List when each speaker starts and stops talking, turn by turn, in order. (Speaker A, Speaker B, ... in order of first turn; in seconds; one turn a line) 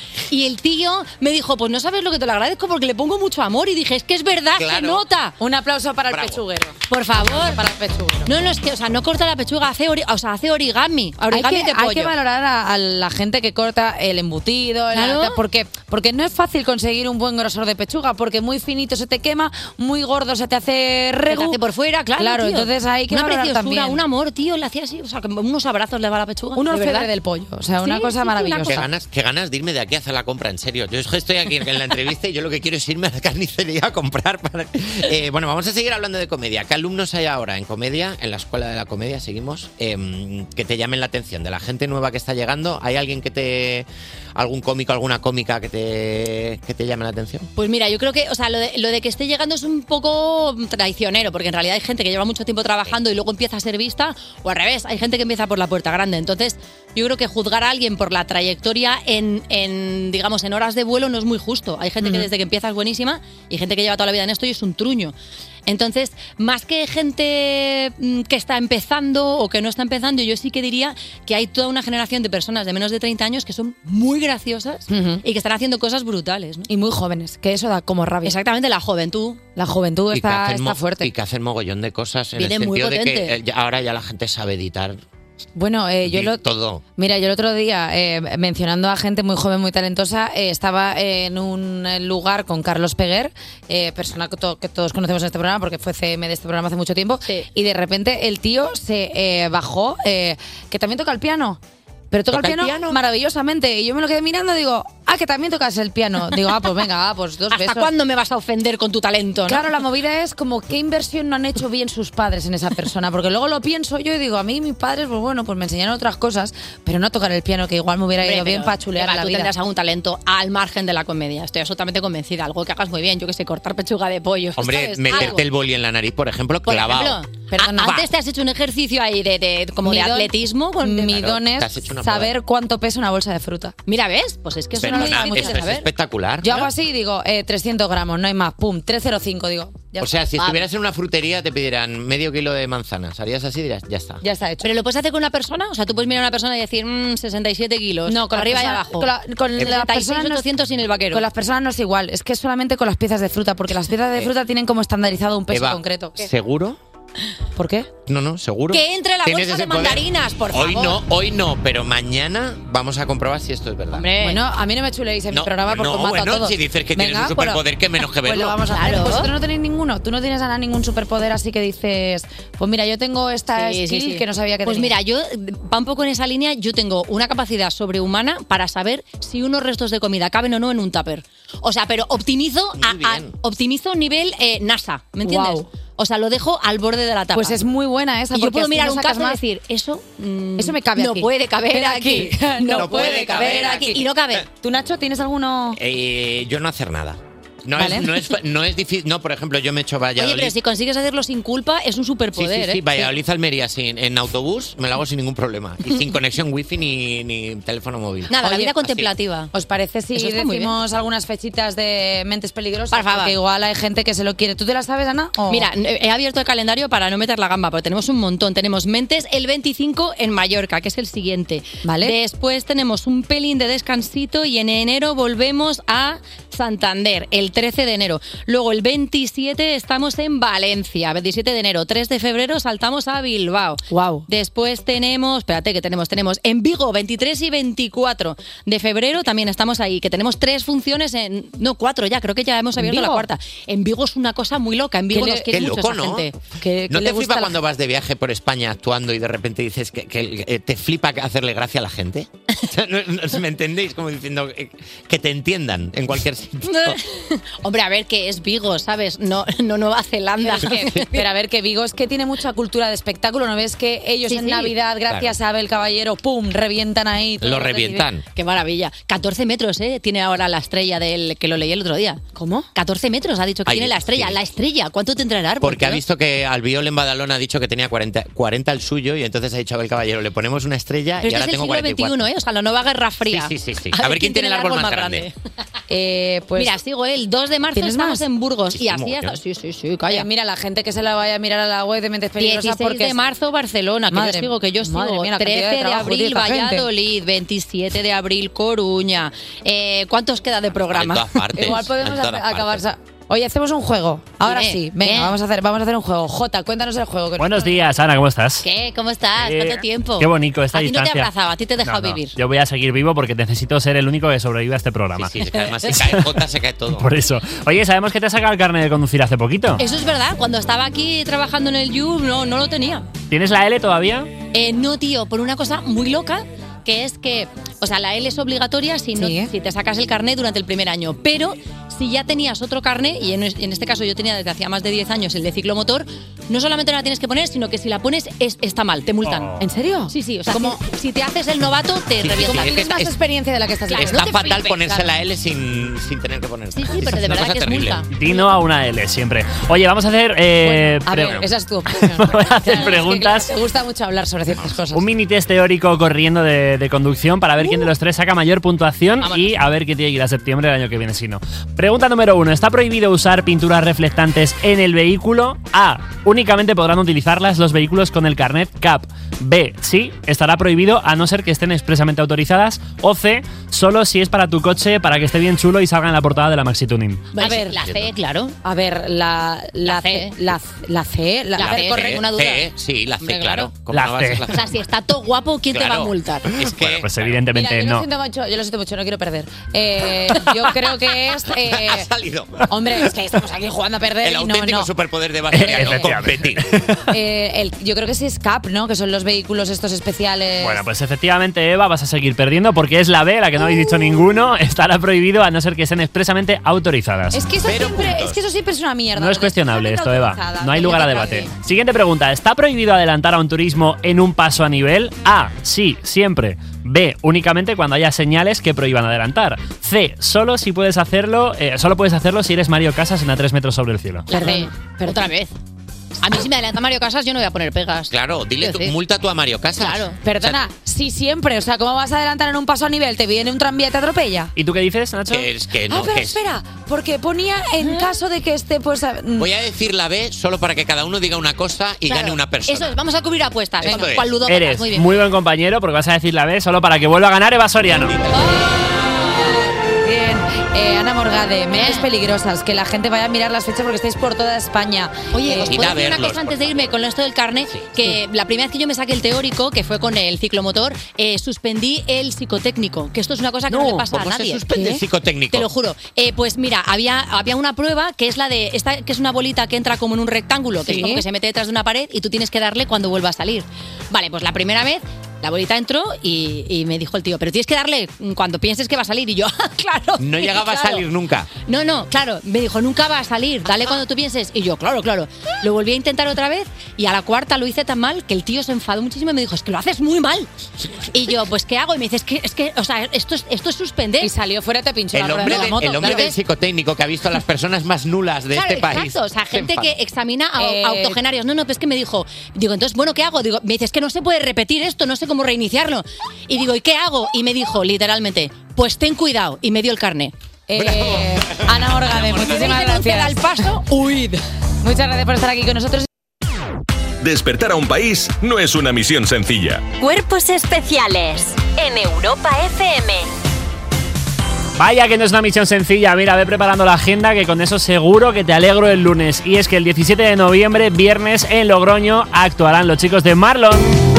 Speaker A: 0.3-5.4
Speaker B: 4.6-5.1
Speaker C: 5.4-8.3
Speaker B: 6.1-6.4
Speaker A: 6.9-7.6
Speaker A: 8.3-12.1
Speaker C: 11.3-21.6
Speaker A: 14.9-15.4
Speaker A: 21.3-27.1
Speaker C: 22.2-24.0
Speaker C: 26.6-28.9
Speaker A: 27.8-28.9
Speaker B: 28.6-47.5
Speaker A: 47.6-65.1
Speaker C: 62.0-62.3
Speaker A: 65.7-76.7
Speaker C: 74.9-75.2
Speaker C: 76.7-78.4
Speaker A: 78.2-79.4
Speaker C: 79.6-81.1
Speaker B: 80.1-85.0
Speaker A: 82.4-83.4
Speaker C: 85.6-86.4
Speaker B: 86.1-86.8
Speaker C: 87.0-101.6
Speaker C: 102.1-107.9
Speaker A: 102.4-103.0
Speaker A: 107.5-109.7
Speaker C: 109.5-119.5
Speaker A: 118.2-125.5
Speaker B: 124.6-127.2
Speaker C: 125.1-125.4
Speaker A: 126.7-131.2
Speaker C: 127.5-128.1
Speaker C: 129.8-133.8
Speaker B: 131.1-132.3
Speaker A: 133.9-135.9
Speaker B: 134.7-136.5
Speaker C: 134.9-135.6
Speaker C: 136.4-140.5
Speaker A: 136.5-136.7
Speaker B: 140.0-144.2
Speaker C: 144.2-144.7
Speaker A: 144.6-151.2
Speaker C: 148.1-150.5
Speaker C: 151.1-156.3
Speaker B: 155.5-156.8
Speaker C: 157.6-157.9
Speaker B: 158.1-164.1
Speaker A: 158.7-161.0
Speaker A: 163.9-164.4
Speaker C: 164.2-167.6
Speaker B: 165.3-168.6
Speaker C: 168.3-175.0
Speaker A: 168.4-169.3
Speaker A: 173.6-187.6
Speaker B: 182.8-183.3
Speaker C: 185.2-185.7
Speaker C: 187.3-189.4
Speaker A: 188.3-194.4
Speaker C: 190.6-195.8
Speaker B: 192.8-194.4
Speaker B: 195.8-200.6
Speaker C: 197.8-198.1
Speaker A: 200.2-203.1
Speaker B: 202.4-209.1
Speaker A: 208.3-209.5
Speaker C: 208.4-208.7
Speaker C: 209.5-215.7
Speaker A: 210.1-210.8
Speaker A: 212.9-213.4
Speaker A: 215.5-246.4
Speaker C: 221.8-222.2
Speaker C: 233.9-234.3
Speaker C: 242.8-243.3
Speaker C: 245.1-245.5
Speaker B: 245.5-246.3
Speaker C: 246.6-247.5
Speaker B: 246.9-257.0
Speaker A: 256.7-261.2
Speaker C: 260.4-268.1
Speaker B: 260.8-261.1
Speaker A: 264.2-264.8
Speaker B: 265.1-265.3
Speaker B: 267.4-268.3
Speaker A: 268.4-272.2
Speaker C: 272.4-272.7
Speaker A: 272.8-276.0
Speaker B: 273.7-274.4
Speaker B: 275.6-282.3
Speaker A: 281.2-285.4
Speaker B: 283.3-285.3
Speaker C: 285.9-286.8
Speaker A: 286.6-290.3
Speaker C: 287.7-288.2
Speaker B: 288.7-289.4
Speaker C: 290.1-293.2
Speaker A: 292.4-301.4
Speaker C: 294.1-296.9
Speaker B: 300.9-302.8
Speaker C: 301.6-307.8
Speaker A: 304.4-305.4
Speaker D: 307.4-308.7
Speaker A: 308.6-312.4
Speaker D: 309.4-311.3
Speaker D: 311.8-315.4
Speaker B: 315.2-317.1
Speaker D: 316.9-319.8
Speaker A: 319.8-323.1
Speaker D: 323.3-324.3
Speaker A: 324.5-339.5
Speaker C: 329.1-329.5
Speaker D: 339.2-339.6
Speaker C: 339.6-340.8
Speaker A: 340.1-342.8
Speaker B: 342.2-343.1
Speaker C: 342.3-344.9
Speaker A: 343.9-345.0
Speaker B: 344.0-348.0
Speaker A: 346.7-348.4
Speaker D: 348.1-351.4
Speaker C: 350.6-355.1
Speaker D: 352.2-353.5
Speaker D: 354.9-377.2
Speaker A: 359.2-359.5
Speaker A: 377.3-378.6
Speaker C: 377.4-377.8
Speaker B: 377.8-378.1
Speaker C: 378.6-382.2
Speaker A: 379.8-380.4
Speaker A: 381.6-383.8
Speaker B: 381.6-384.7
Speaker D: 383.9-384.5
Speaker A: 384.5-386.6
Speaker B: 385.7-387.4
Speaker D: 386.8-388.1
Speaker C: 387.5-392.1
Speaker B: 391.6-392.7
Speaker C: 392.6-394.9
Speaker B: 394.2-396.8
Speaker D: 395.5-397.1
Speaker C: 395.6-396.1
Speaker C: 397.1-400.8
Speaker D: 400.6-407.4
Speaker C: 407.3-411.5
Speaker B: 407.6-408.4
Speaker D: 409.2-424.3
Speaker A: 424.3-425.5
Speaker C: 424.3-425.3
Speaker A: 426.2-429.0
Speaker B: 428.1-430.6
Speaker A: 429.8-430.2
Speaker C: 430.2-434.5
Speaker D: 434.6-435.5
Speaker B: 435.3-436.4
Speaker C: 435.9-439.5
Speaker A: 437.8-438.1
Speaker B: 439.4-443.0
Speaker A: 442.1-445.2
Speaker B: 443.8-444.4
Speaker D: 444.5-448.2
Speaker C: 450.0-455.9
Speaker A: 451.7-452.1
Speaker A: 455.3-464.6
Speaker B: 455.5-457.0
Speaker B: 457.7-457.9
Speaker B: 463.7-465.7
Speaker C: 464.7-465.1
Speaker A: 465.5-490.5
Speaker C: 470.8-471.2
Speaker B: 480.2-481.5
Speaker A: 491.1-494.3
Speaker C: 494.2-496.3
Speaker B: 495.1-500.0
Speaker A: 495.3-496.4
Speaker A: 498.5-510.3
Speaker C: 500.6-501.2
Speaker C: 510.7-513.5
Speaker B: 510.8-511.6
Speaker A: 512.2-514.4
Speaker C: 514.8-516.1
Speaker E: 517.2-519.9
Speaker F: 520.0-523.3
Speaker D: 524.8-533.9